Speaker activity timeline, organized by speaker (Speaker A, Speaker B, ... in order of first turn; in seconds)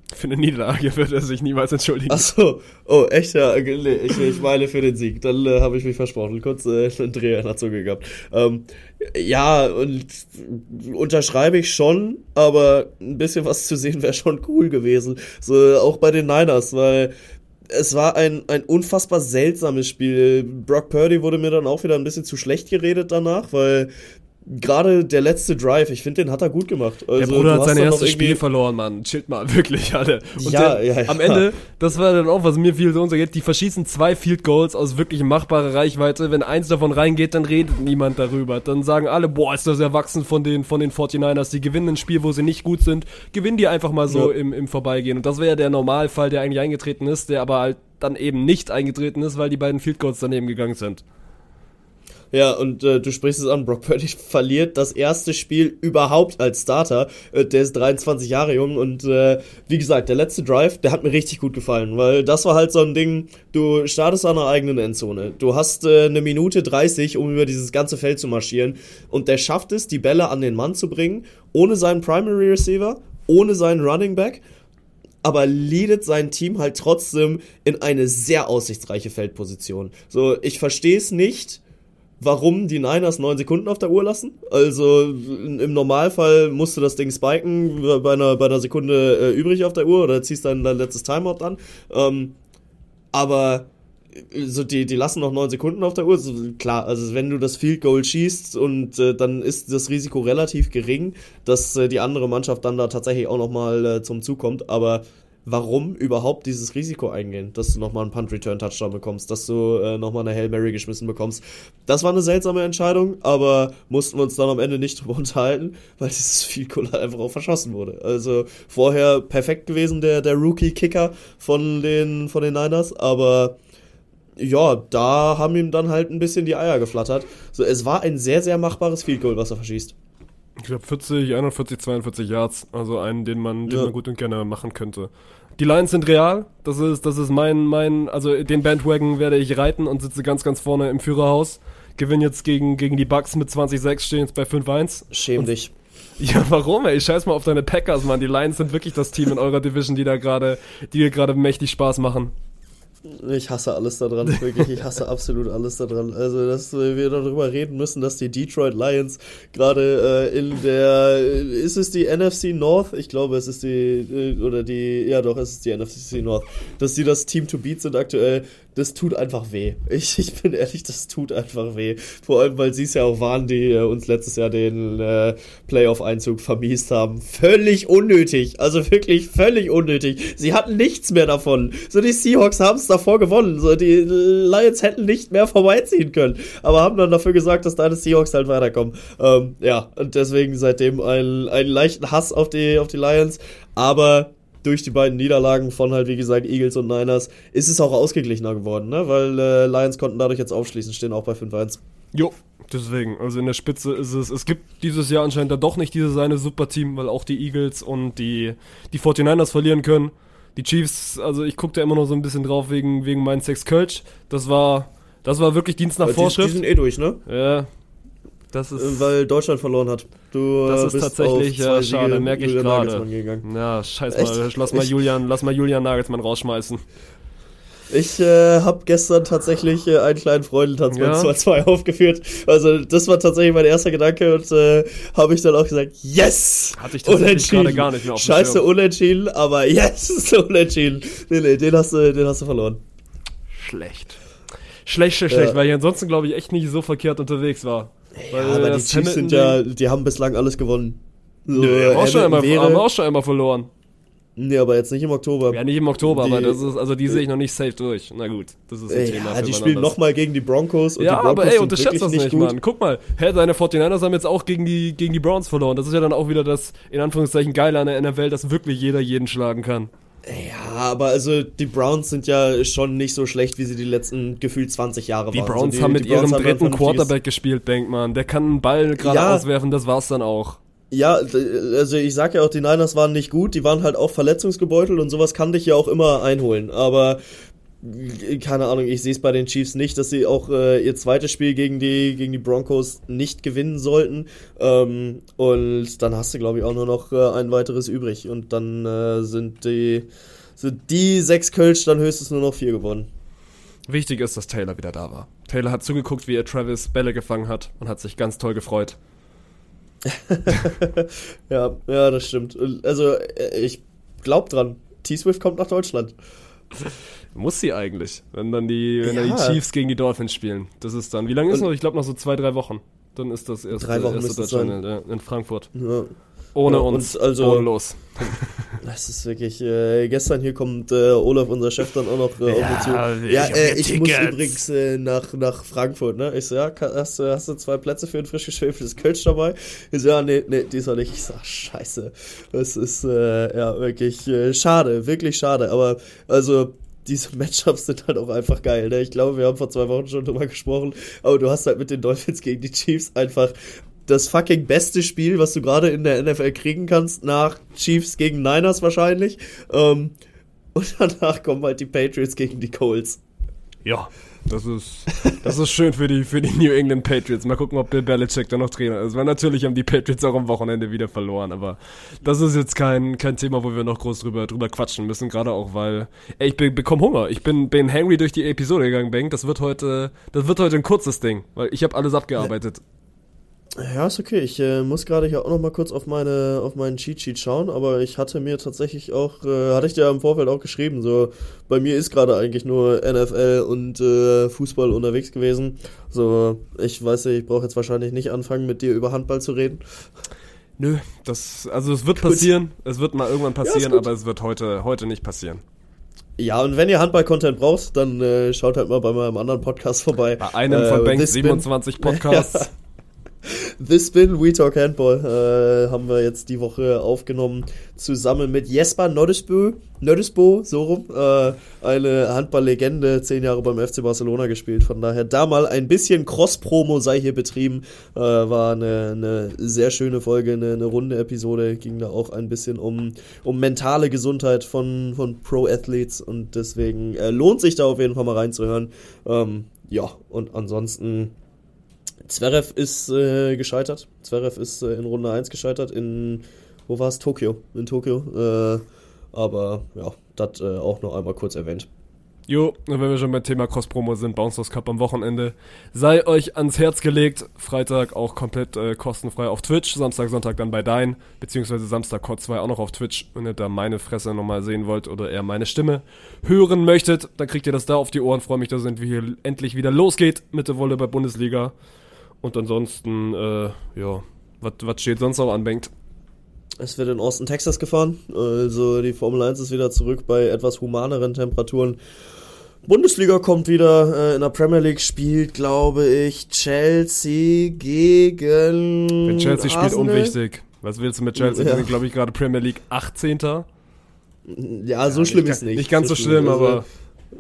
Speaker A: 0.1-2.3, 27.2-51.0, 130.6-145.5, 146.2-152.3, 202.1-216.6, 217.3-217.7, 218.5-219.1, 220.7-226.8, 230.9-231.3, 236.8-238.7, 243.5-244.2, 244.8-249.6, 251.5-253.7, 255.5-260.0, 261.0-269.9, 275.3-280.6, 303.9-309.0, 317.3-325.7, 326.6-328.8, 332.5-334.6, 363.8-382.8, 400.8-405.6, 410.4-412.7, 452.5-471.7, 472.4-475.9, 489.3-493.7, 495.1-496.9
Speaker B: 2.1-17.1, 17.7-23.9, 24.4-28.4, 30.4-31.5, 52.3-74.4, 75.2-81.6, 82.2-92.3, 93.1-123.6, 124.4-129.9, 133.7-133.9, 145.1-145.7, 153.1-201.8, 216.0-217.2, 218.8-223.4, 224.1-224.9, 227.9-242.8, 245.3-245.6, 248.2-252.9, 254.4-257.2, 258.9-262.6, 270.3-277.1, 279.0-279.5, 280.9-287.2, 287.8-303.1, 310.1-316.1, 319.0-319.6, 323.7-324.8, 325.8-326.1, 326.7-327.7, 328.2-353.5, 354.1-360.2, 360.8-363.2, 383.8-399.8, 402.2-402.5, 403.6-404.1, 406.4-412.7, 413.4-441.3, 442.2-451.9, 476.8-482.0, 482.9-490.4, 491.4-491.9, 494.5-496.8